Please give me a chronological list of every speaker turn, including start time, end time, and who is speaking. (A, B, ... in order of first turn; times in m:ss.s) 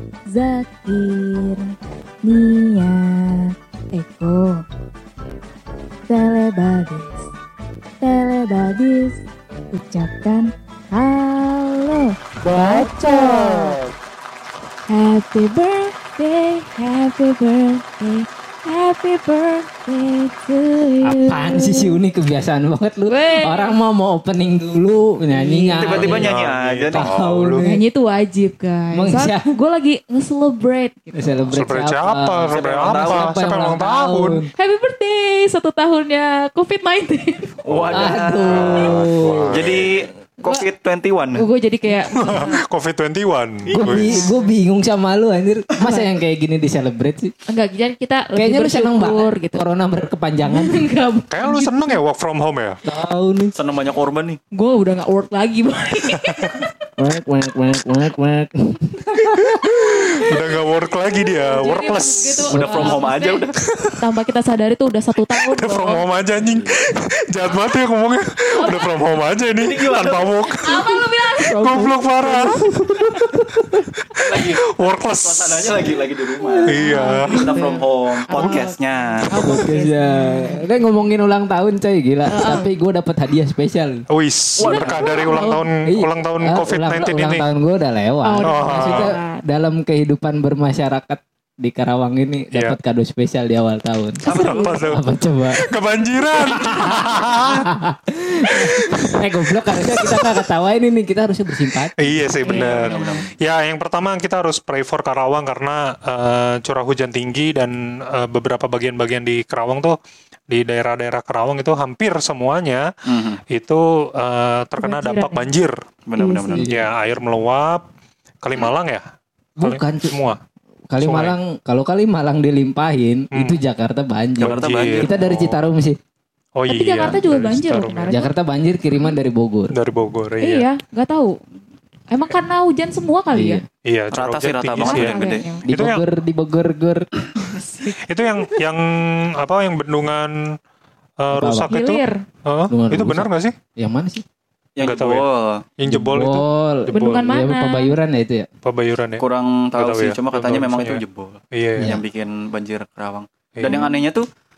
0:00.3-0:01.6 A
0:02.2-0:03.4 A
0:03.9-0:04.5 A
0:06.1-0:07.2 A
0:08.0-0:09.2 A
0:09.7-0:13.7 A
0:12.4-0:13.8 B
0:14.9-0:22.0 A
0:21.0-0:26.3 C
0:23.1-0:23.8 A
0:25.3-0:26.1 A
0:25.8-0:27.2 D
0:25.9-0:27.6 B
0:26.9-0:27.8 C
0:27.6-0:31.3 A
0:28.9-0:29.5 C
0:31.1-0:34.5 C
0:31.5-0:34.4 B
0:32.5-0:33.4 D
0:34.6-0:37.5 A
0:37.6-0:41.4 D
0:37.6-0:39.9 B
0:37.9-0:39.7 C
0:41.4-0:42.6 A
0:42.1-0:44.2 B
0:43.7-0:47.3 C
0:43.8-0:44.5 A
0:45.8-0:46.1 A
0:47.5-0:49.6 A
0:48.3-0:50.7 C
0:50.4-0:52.0 A
0:51.3-0:52.8 B
0:52.8-0:53.5 C
0:53.5-0:54.4 D
0:54.5-0:56.8 A
0:57.0-1:00.3 C
0:59.6-1:02.5 B
1:01.0-1:06.0 A
1:02.5-1:03.0 C
1:02.5-1:03.5 D
1:03.6-1:04.0 B
1:05.4-1:15.9 B
1:06.4-1:06.6 D
1:08.5-1:09.0 A
1:09.6-1:10.4 D
1:10.6-1:12.6 A
1:11.5-1:13.9 C
1:14.2-1:19.4 D
1:16.6-1:17.3 B
1:16.6-1:20.6 A
1:16.7-1:17.1 C
1:19.3-1:24.0 C
1:22.3-1:22.7 A
1:24.1-1:27.4 B
1:24.6-1:25.5 D
1:24.6-1:25.7 A
1:25.8-1:35.6 C
1:28.2-1:29.4 A
1:28.4-1:29.1 B
1:34.2-1:34.9 A
1:34.2-1:34.8 D
1:34.3-1:37.7 B
1:36.4-1:37.1 A
1:36.4-1:42.3 C
1:38.6-1:40.4 B
1:42.0-1:50.0 B
1:42.4-1:43.2 A
1:42.4-1:43.2 D
1:50.5-1:52.8 B
1:53.1-1:53.4 D
1:53.5-1:55.7 B
1:54.8-1:55.5 A
1:56.1-1:56.7 D
1:56.2-1:56.6 A
1:56.5-1:56.9 C
1:56.6-1:57.8 B
1:58.4-1:59.0 B
1:59.6-2:00.2 C
1:59.6-2:00.4 B
2:00.9-2:06.0 C
2:01.0-2:01.3 B
2:04.4-2:05.6 B
2:04.4-2:05.2 D
2:06.6-2:08.2 B
2:06.7-2:08.3 A
2:08.1-2:09.7 C
2:09.7-2:10.7 B
2:10.4-2:11.4 A
2:12.1-2:13.6 A
2:13.3-2:13.6 C
2:13.8-2:16.0 B
2:14.1-2:15.4 D
2:14.8-2:15.6 A
2:15.6-2:17.0 C
2:17.4-2:18.0 A
2:17.9-2:20.5 B
2:21.2-2:23.5 B
2:21.3-2:21.7 C
2:21.7-2:22.2 A
2:22.7-2:24.2 C
2:24.8-2:25.6 D
2:24.8-2:25.2 B
2:25.8-2:27.3 B
2:25.9-2:28.5 C
2:26.9-2:27.9 A
2:28.6-2:29.2 B
2:29.2-2:34.2 D
2:29.8-2:31.0 B
2:31.5-2:31.9 B
2:31.8-2:32.0 C
2:33.6-2:33.8 B
2:33.6-2:34.0 A